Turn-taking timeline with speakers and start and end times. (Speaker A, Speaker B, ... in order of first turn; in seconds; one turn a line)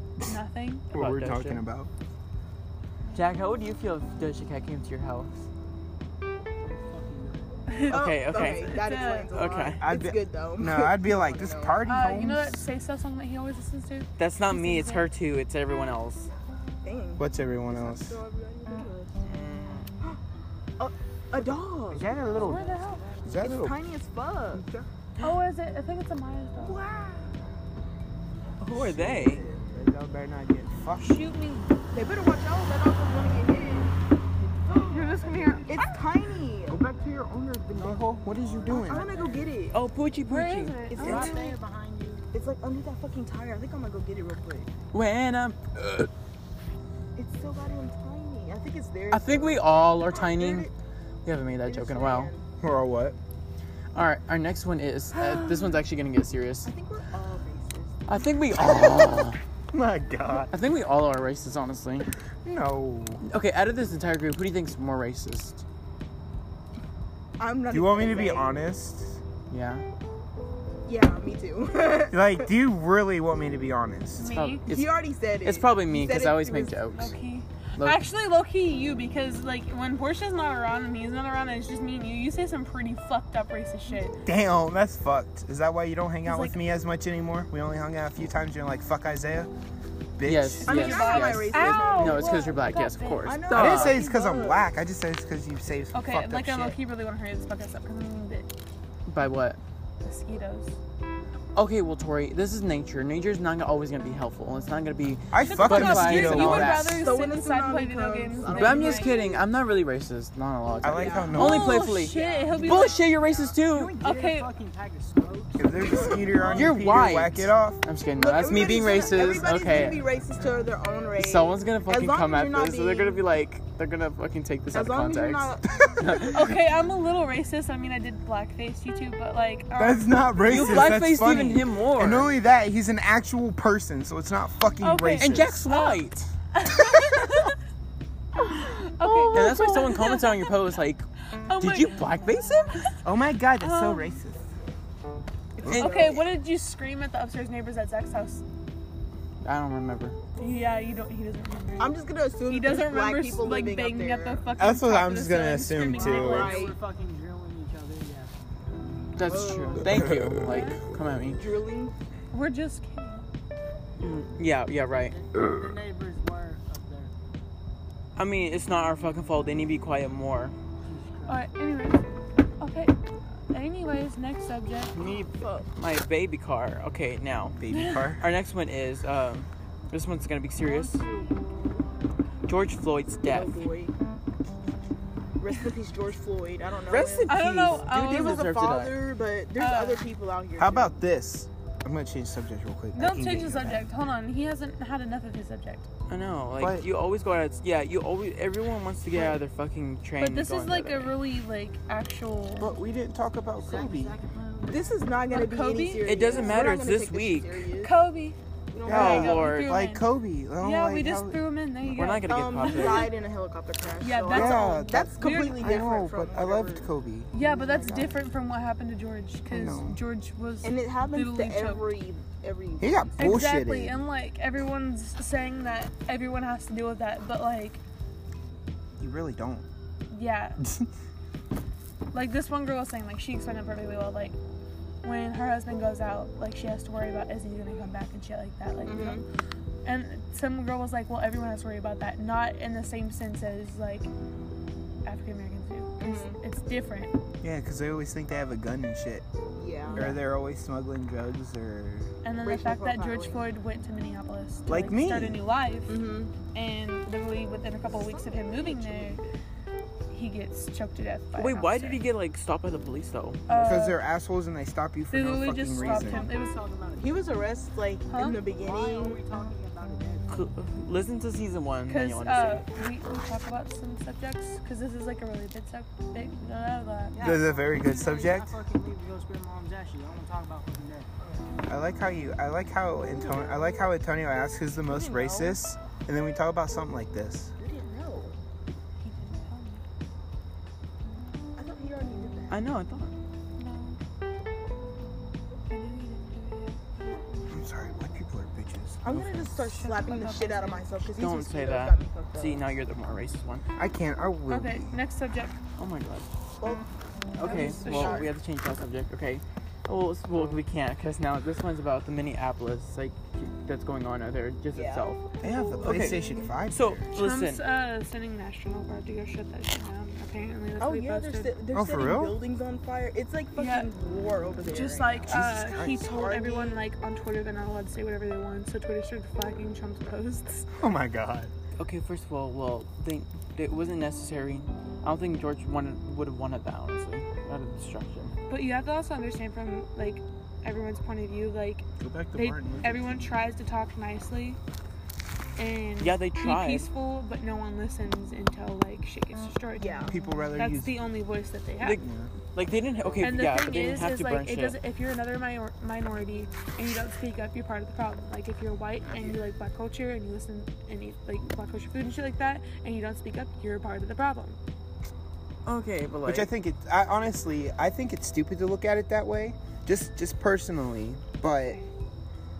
Speaker A: 0.2-0.9
Speaker B: 0.9-1.9
Speaker C: 0.9-1.6
Speaker C: 3.1-5.3
Speaker D: 6.6-7.5
Speaker A: 7.7-8.0
Speaker E: 7.9-11.8
Speaker C: 7.9-8.8
Speaker A: 8.6-9.3
Speaker C: 9.3-9.8
Speaker B: 9.8-12.7
Speaker A: 11.8-15.1
Speaker C: 14.2-16.3
Speaker E: 16.8-19.3
Speaker B: 17.2-18.2
Speaker C: 19.2-19.9
Speaker E: 20.8-22.2
Speaker B: 21.9-22.6
Speaker D: 22.1-23.3
Speaker A: 22.4-23.0
Speaker B: 23.2-23.8
Speaker E: 23.4-24.9
Speaker A: 25.2-26.8
Speaker B: 26.6-27.3
Speaker C: 28.6-29.4
Speaker B: 28.7-31.2
Speaker E: 29.1-29.6
Speaker A: 31.0-31.7
Speaker E: 31.9-34.0
Speaker E: 34.7-35.1
Speaker A: 34.8-35.9
Speaker E: 35.6-36.8
Speaker B: 36.7-39.1
Speaker D: 37.8-39.5
Speaker E: 38.7-39.8
Speaker C: 39.7-40.8
Speaker A: 40.3-41.5
Speaker E: 40.9-41.6
Speaker D: 41.0-42.2
Speaker E: 42.3-44.7
Speaker C: 44.9-46.0
Speaker E: 47.1-50.7
Speaker C: 49.1-50.7
Speaker C: 51.2-52.3
Speaker E: 51.6-52.4
Speaker B: 52.6-53.2
Speaker C: 53.9-56.7
Speaker B: 55.1-55.8
Speaker E: 56.6-58.0
Speaker C: 58.1-59.4
Speaker B: 59.7-60.5
Speaker C: 60.5-62.1
Speaker B: 62.4-63.2
Speaker C: 63.2-65.6
Speaker E: 67.4-68.6
Speaker B: 67.7-69.2
Speaker C: 69.5-69.8
Speaker E: 70.8-72.5
Speaker B: 72.1-74.3
Speaker A: 74.2-74.6
Speaker C: 74.3-74.9
Speaker E: 74.7-76.8
Speaker C: 75.4-77.1
Speaker A: 76.9-84.2
Speaker B: 84.2-89.5
Speaker E: 86.2-86.5
Speaker B: 90.2-90.9
Speaker C: 90.2-94.0
Speaker E: 90.7-92.6
Speaker A: 90.7-93.4
Speaker E: 93.2-94.7
Speaker B: 93.5-96.8
Speaker A: 95.9-98.5
Speaker C: 99.1-99.6
Speaker A: 100.0-100.7
Speaker C: 101.5-107.0
Speaker B: 105.3-107.0
Speaker A: 105.4-109.1
Speaker E: 106.9-109.5
Speaker C: 108.5-114.0
Speaker B: 110.8-111.8
Speaker E: 110.8-113.5
Speaker A: 111.3-113.0
Speaker D: 113.2-116.6
Speaker A: 114.0-114.5
Speaker B: 115.6-117.8
Speaker E: 115.8-117.0
Speaker C: 116.5-120.1
Speaker E: 118.1-123.2
Speaker C: 121.2-126.5
Speaker E: 124.7-126.2
Speaker A: 126.2-131.0
Speaker B: 129.8-135.6
Speaker C: 130.5-132.3
Speaker A: 134.8-137.5
Speaker C: 135.2-136.3
Speaker A: 138.6-140.6
Speaker B: 139.0-140.0
Speaker C: 139.3-141.1
Speaker A: 141.3-142.1
Speaker C: 141.6-142.8
Speaker B: 143.0-144.4
Speaker A: 143.6-144.1
Speaker E: 145.6-146.3
Speaker A: 145.7-148.4
Speaker C: 145.7-145.9
Speaker C: 149.4-150.2
Speaker A: 150.4-156.7
Speaker E: 151.8-154.4
Speaker B: 154.6-156.6
Speaker D: 156.0-159.1
Speaker E: 156.0-156.8
Speaker C: 159.1-161.4
Speaker E: 159.2-160.0
Speaker B: 159.9-160.4
Speaker A: 160.4-160.8
Speaker E: 161.3-161.9
Speaker A: 162.3-163.3
Speaker C: 164.0-165.1
Speaker D: 164.9-167.1
Speaker C: 168.2-170.5
Speaker D: 170.8-171.5
Speaker A: 171.3-172.1
Speaker A: 172.6-172.9
Speaker A: 173.5-174.9
Speaker C: 174.9-177.6
Speaker E: 175.0-175.7
Speaker B: 177.6-178.2
Speaker A: 177.7-178.0
Speaker C: 178.2-181.0
Speaker D: 180.6-181.6
Speaker C: 182.4-183.6
Speaker E: 183.2-183.9
Speaker E: 185.4-190.9
Speaker C: 186.9-189.0
Speaker A: 187.3-188.5
Speaker A: 189.6-190.1
Speaker B: 190.6-193.9
Speaker A: 192.9-195.9
Speaker C: 196.1-201.1
Speaker B: 196.6-196.9
Speaker A: 200.2-202.7
Speaker B: 202.6-204.2
Speaker D: 203.6-205.0
Speaker E: 204.7-208.0
Speaker A: 205.3-206.6
Speaker C: 206.0-207.7
Speaker A: 207.8-208.3
Speaker E: 208.7-209.4
Speaker B: 208.8-211.4
Speaker C: 208.8-209.7
Speaker A: 208.9-210.1
Speaker A: 210.6-213.1
Speaker C: 211.9-213.1
Speaker E: 212.3-218.1
Speaker A: 214.0-215.8
Speaker B: 214.3-218.1
Speaker A: 217.3-221.8
Speaker B: 219.5-220.0
Speaker E: 220.6-223.4
Speaker B: 222.8-224.0
Speaker A: 223.2-227.8
Speaker B: 229.0-229.7
Speaker A: 230.1-230.6
Speaker B: 230.6-230.9
Speaker A: 232.1-234.3
Speaker A: 235.0-239.2
Speaker E: 238.8-239.2
Speaker A: 239.8-244.1
Speaker A: 245.0-247.2
Speaker E: 246.0-246.4
Speaker B: 247.4-249.2
Speaker E: 249.6-250.2
Speaker A: 249.9-250.2
Speaker B: 249.9-252.1
Speaker A: 252.2-256.0
Speaker E: 252.4-253.4
Speaker B: 254.7-255.4
Speaker E: 255.9-256.3
Speaker A: 256.5-259.2
Speaker E: 257.9-259.3
Speaker A: 260.1-262.0
Speaker C: 261.3-263.4
Speaker A: 263.5-264.0
Speaker B: 263.5-266.3
Speaker A: 265.1-266.6
Speaker D: 265.7-267.5
Speaker E: 266.9-269.2
Speaker A: 268.1-268.4
Speaker D: 268.4-270.4
Speaker C: 270.3-272.6
Speaker A: 271.9-277.2
Speaker D: 277.1-281.3
Speaker B: 277.2-278.5
Speaker B: 281.7-287.5
Speaker E: 283.1-283.8
Speaker E: 284.9-285.6
Speaker E: 287.6-288.4
Speaker A: 289.0-289.8
Speaker E: 291.6-292.6
Speaker C: 292.5-293.1
Speaker A: 293.6-294.0
Speaker A: 295.7-297.3
Speaker B: 297.5-299.8
Speaker E: 299.0-302.6
Speaker A: 299.7-301.0
Speaker C: 301.1-303.6
Speaker B: 303.8-305.0
Speaker A: 304.5-305.6
Speaker C: 305.8-306.3
Speaker E: 306.6-308.3
Speaker C: 307.4-315.2
Speaker A: 307.4-308.3
Speaker E: 314.7-315.1
Speaker B: 315.4-317.0
Speaker A: 315.4-316.5
Speaker C: 315.8-317.6
Speaker A: 317.1-321.5
Speaker E: 320.8-325.3
Speaker B: 321.7-322.4
Speaker A: 323.6-323.9
Speaker A: 324.6-330.7
Speaker B: 325.2-326.1
Speaker E: 326.0-326.8
Speaker B: 330.8-331.5
Speaker C: 331.8-338.3
Speaker A: 338.5-344.6
Speaker B: 342.0-343.3
Speaker A: 345.6-352.0
Speaker C: 346.0-346.9
Speaker E: 349.8-350.1
Speaker B: 350.1-350.9
Speaker C: 351.8-354.8
Speaker B: 352.0-352.3
Speaker A: 353.2-364.6
Speaker C: 365.6-366.5
Speaker B: 366.2-371.8